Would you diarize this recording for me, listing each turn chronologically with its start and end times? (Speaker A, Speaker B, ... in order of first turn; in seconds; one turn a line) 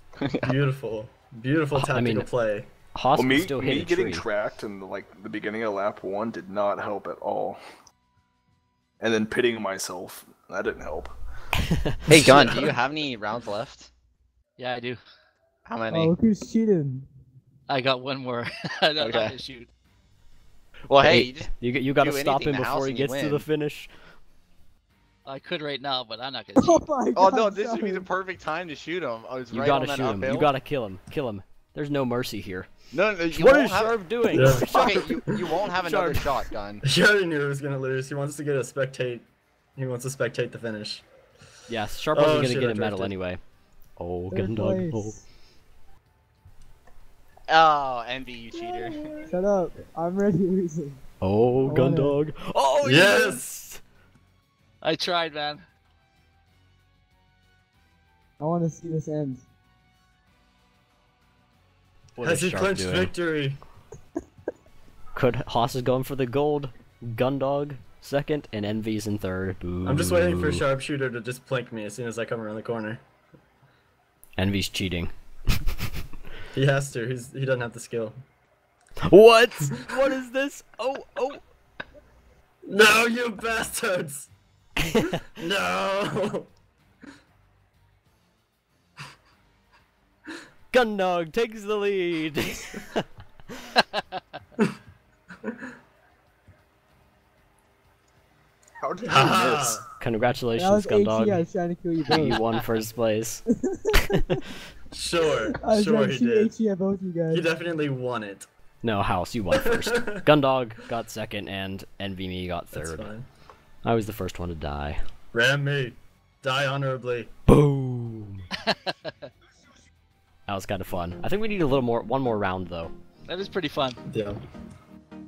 Speaker A: 0.2-0.5
Speaker B: 0.4-2.7
Speaker C: 1.7-2.3
Speaker C: 2.9-4.2
Speaker D: 3.1-7.6
Speaker D: 9.0-11.1
Speaker A: 12.1-13.9
Speaker B: 12.1-12.7
Speaker E: 14.6-15.0
Speaker A: 15.7-16.1
Speaker F: 15.9-17.1
Speaker E: 17.7-19.7
Speaker A: 19.0-19.4
Speaker A: 20.9-23.4
Speaker C: 21.0-23.9
Speaker E: 25.2-26.9
Speaker F: 26.6-28.1
Speaker A: 27.1-30.5
Speaker C: 29.5-32.7
Speaker A: 32.9-33.9
Speaker C: 33.3-35.1
Speaker B: 34.3-35.1
Speaker A: 34.7-36.8
Speaker C: 35.8-36.2
Speaker B: 36.8-41.0
Speaker C: 41.7-43.4
Speaker B: 42.1-43.1
Speaker C: 44.0-45.2
Speaker F: 44.3-45.2
Speaker A: 47.5-49.1
Speaker F: 49.2-51.0
Speaker C: 51.2-53.8
Speaker F: 51.6-52.2
Speaker B: 52.8-53.4
Speaker E: 54.8-55.6
Speaker F: 58.4-59.4
Speaker C: 62.1-63.1
Speaker B: 62.2-63.6
Speaker C: 65.1-70.6
Speaker B: 69.8-73.0
Speaker C: 74.4-75.1
Speaker B: 76.5-78.2
Speaker C: 79.1-81.4
Speaker B: 82.7-84.3
Speaker B: 85.4-86.5
Speaker C: 90.7-93.0
Speaker D: 98.8-99.8
Speaker B: 99.0-99.8
Speaker C: 100.0-101.4
Speaker F: 100.5-102.3
Speaker C: 102.1-104.4
Speaker F: 103.5-104.2
Speaker B: 104.9-106.5
Speaker F: 105.4-107.5
Speaker B: 107.3-108.5
Speaker C: 108.8-113.1
Speaker B: 109.6-110.2
Speaker B: 112.7-113.2
Speaker C: 113.8-115.0
Speaker B: 115.3-117.3
Speaker C: 117.5-118.4
Speaker E: 118.7-118.9
Speaker C: 120.5-122.9
Speaker E: 123.3-124.0
Speaker B: 124.1-124.4